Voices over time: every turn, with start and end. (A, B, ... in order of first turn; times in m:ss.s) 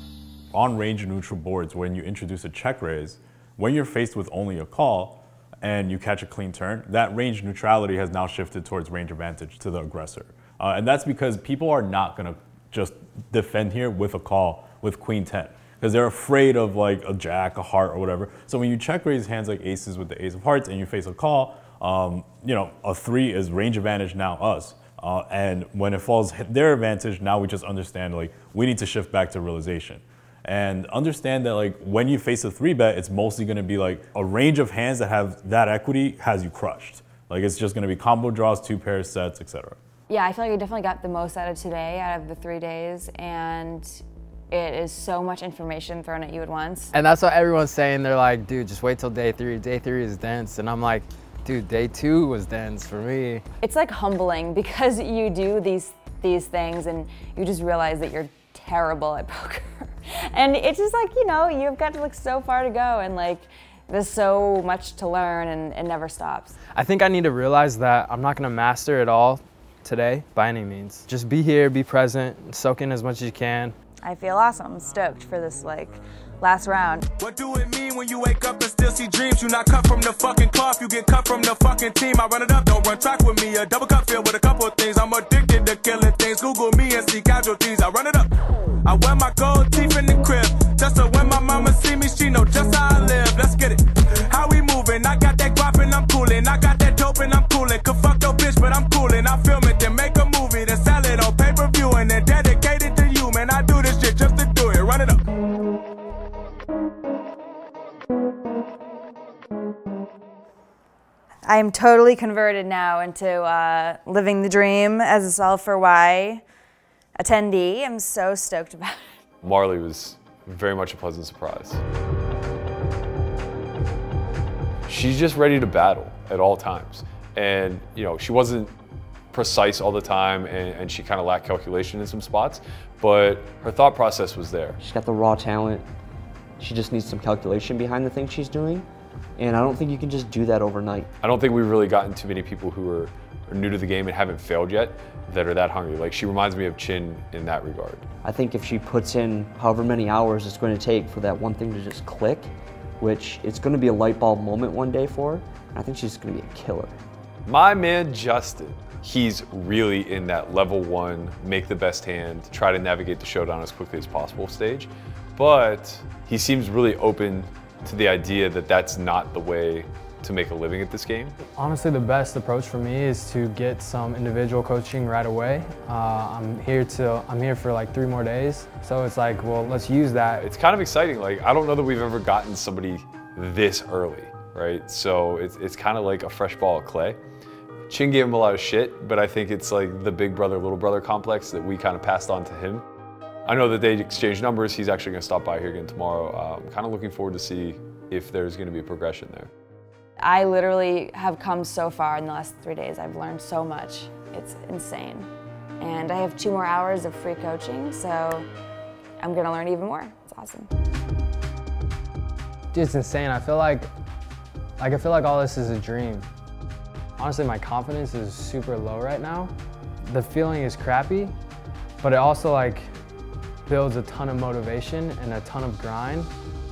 0:00.5-0:39.8 A
0:40.1-0:46.9 B
0:46.9-0:53.4 C
0:53.6-1:06.5 B
1:06.7-1:13.7 C
1:14.0-1:17.1 B
1:17.2-1:28.3 D
1:28.8-1:45.2 D
1:51.4-1:56.4 B
1:57.2-1:59.1 B
1:59.4-2:01.8 E
2:04.9-2:08.7 E
2:09.3-2:14.8 E
2:14.8-2:15.8 F
2:16.6-2:21.1 F
2:21.2-2:28.0 E
2:28.2-2:37.0 F
2:37.4-2:51.4 E
2:51.5-3:00.4 C
3:00.4-3:07.2 E
3:07.9-3:12.8 E
3:13.4-3:19.5 E
3:20.2-3:25.3 B
3:25.8-3:28.5 B
3:29.2-3:30.7 B
3:32.7-3:33.9 C
3:34.8-3:36.3 C
3:37.2-3:39.5 C
3:40.0-3:41.3 C
3:42.0-3:42.9 C
3:43.6-3:46.3 C